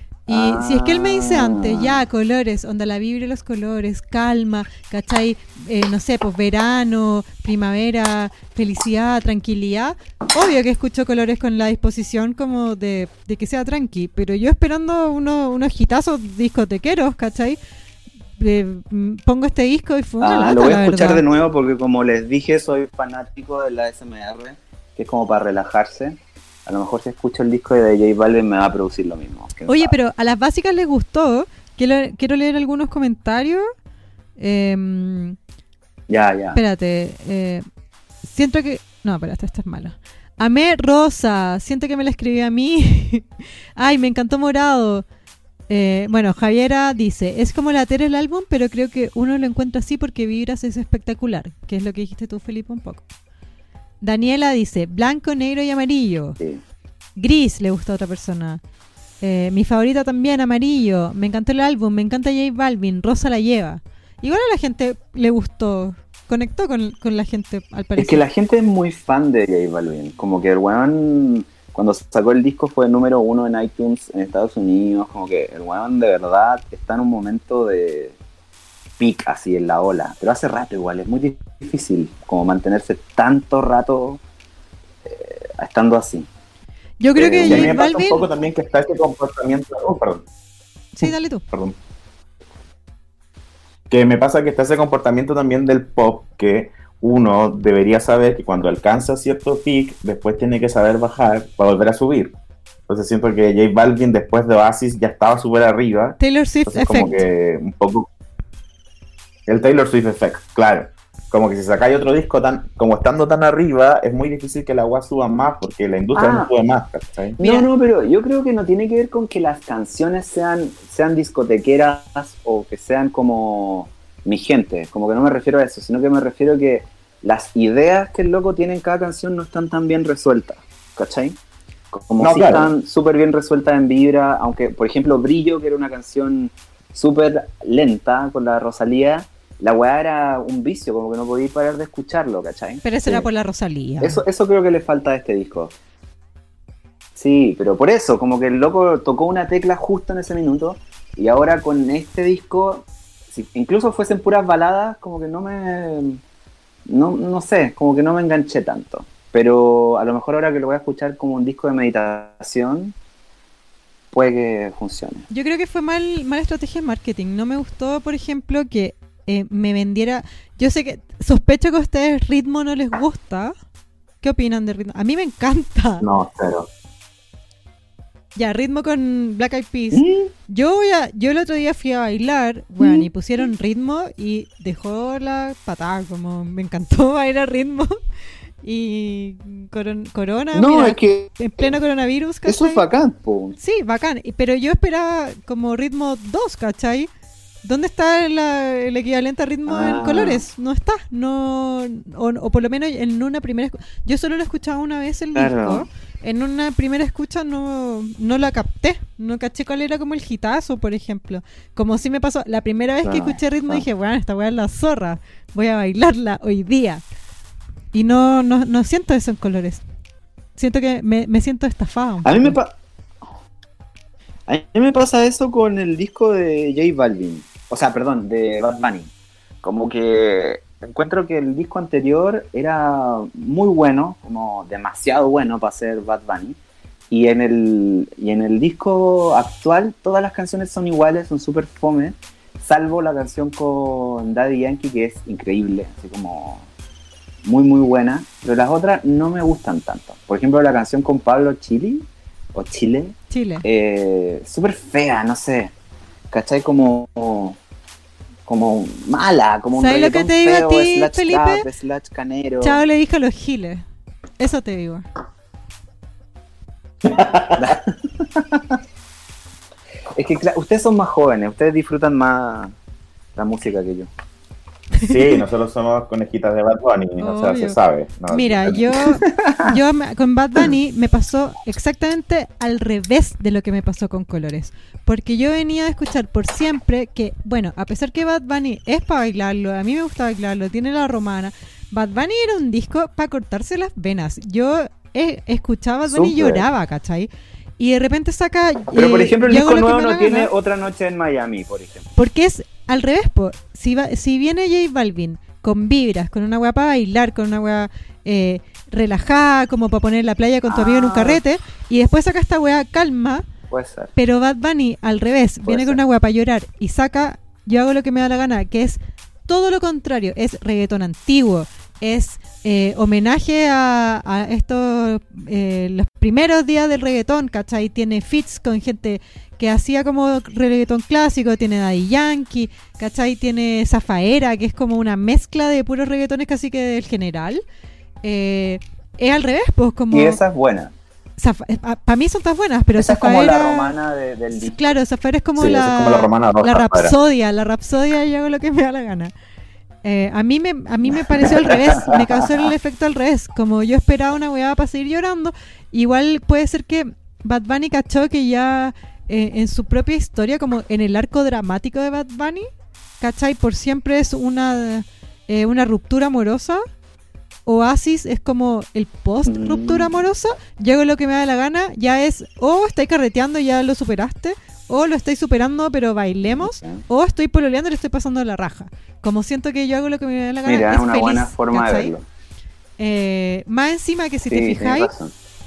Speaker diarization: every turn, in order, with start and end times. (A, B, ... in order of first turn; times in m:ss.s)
0:00.3-0:17.6 A
0:00.3-0:02.0 B
0:18.4-0:21.2 A
0:20.2-0:30.0 B
0:29.7-0:33.7 A
0:34.4-0:35.4 A
0:36.1-0:36.6 B
0:36.5-0:37.6 A
0:38.2-0:45.0 A
0:45.7-0:53.0 A
0:54.0-0:56.4 A
0:57.2-0:58.6 A
0:59.2-1:08.2 A
1:08.0-1:18.2 B
1:19.0-1:24.2 B
1:25.0-1:26.3 B
1:27.0-1:28.2 A
1:27.2-1:27.8 B
1:27.4-1:30.3 C
1:30.9-1:31.4 A
1:31.0-1:31.8 C
1:33.9-1:42.4 C
1:42.9-1:48.1 C
1:46.2-1:47.2 A
1:49.5-1:57.4 C
1:56.1-1:56.5 B
1:57.4-2:11.4 B
1:57.4-1:57.7 A
2:11.9-2:23.3 B
2:12.2-2:12.7 C
2:22.8-2:24.2 A
2:24.0-2:25.7 B
2:27.2-2:36.2 B
2:36.9-2:42.9 B
2:44.1-2:45.3 B
2:45.3-2:53.5 A
2:54.2-2:56.1 A
2:56.0-2:56.7 C
2:58.4-3:07.9 A
2:59.9-3:00.3 B
3:02.8-3:03.1 B
3:08.6-3:12.8 A
3:10.5-3:11.7 B
3:12.5-3:13.6 B
3:13.6-3:17.1 A
3:17.6-3:37.0 A
3:19.7-3:20.4 B
3:25.4-3:25.9 B
3:33.0-3:33.8 B
3:37.9-3:39.8 A
3:40.6-3:42.6 A
3:42.2-3:42.7 B
3:44.5-3:49.1 B
3:49.6-3:56.6 B
3:57.1-4:06.7 B
4:07.4-4:15.7 B
4:13.3-4:13.6 A
4:16.3-4:17.6 B
4:18.5-4:22.8 B
4:19.8-4:21.6 A
4:22.6-4:23.8 A
4:24.4-4:25.0 A
4:27.0-4:27.8 C
4:27.6-4:28.7 B
4:30.2-4:32.7 B
4:33.4-4:34.1 B
4:35.1-4:39.0 C
4:37.2-4:37.8 A
4:38.3-5:00.5 A
4:39.2-4:39.8 B
4:56.1-4:56.6 B
4:58.9-5:02.1 B
5:02.2-5:13.4 A
5:10.7-5:11.4 B
5:13.7-5:14.1 B
5:14.2-5:37.6 A
5:15.6-5:16.0 B
5:38.2-5:40.4 A
5:40.1-5:40.9 B
5:41.4-5:43.9 A
5:43.0-5:45.0 B
5:44.5-5:49.3 A
5:45.6-5:47.1 C
5:50.0-6:02.7 A
5:51.8-5:52.3 B
6:03.2-6:06.8 A
6:07.7-6:22.1 A
6:09.4-6:10.2 B
6:16.5-6:17.0 B
6:20.7-6:22.2 B
6:23.0-6:25.1 A
6:24.5-6:25.3 B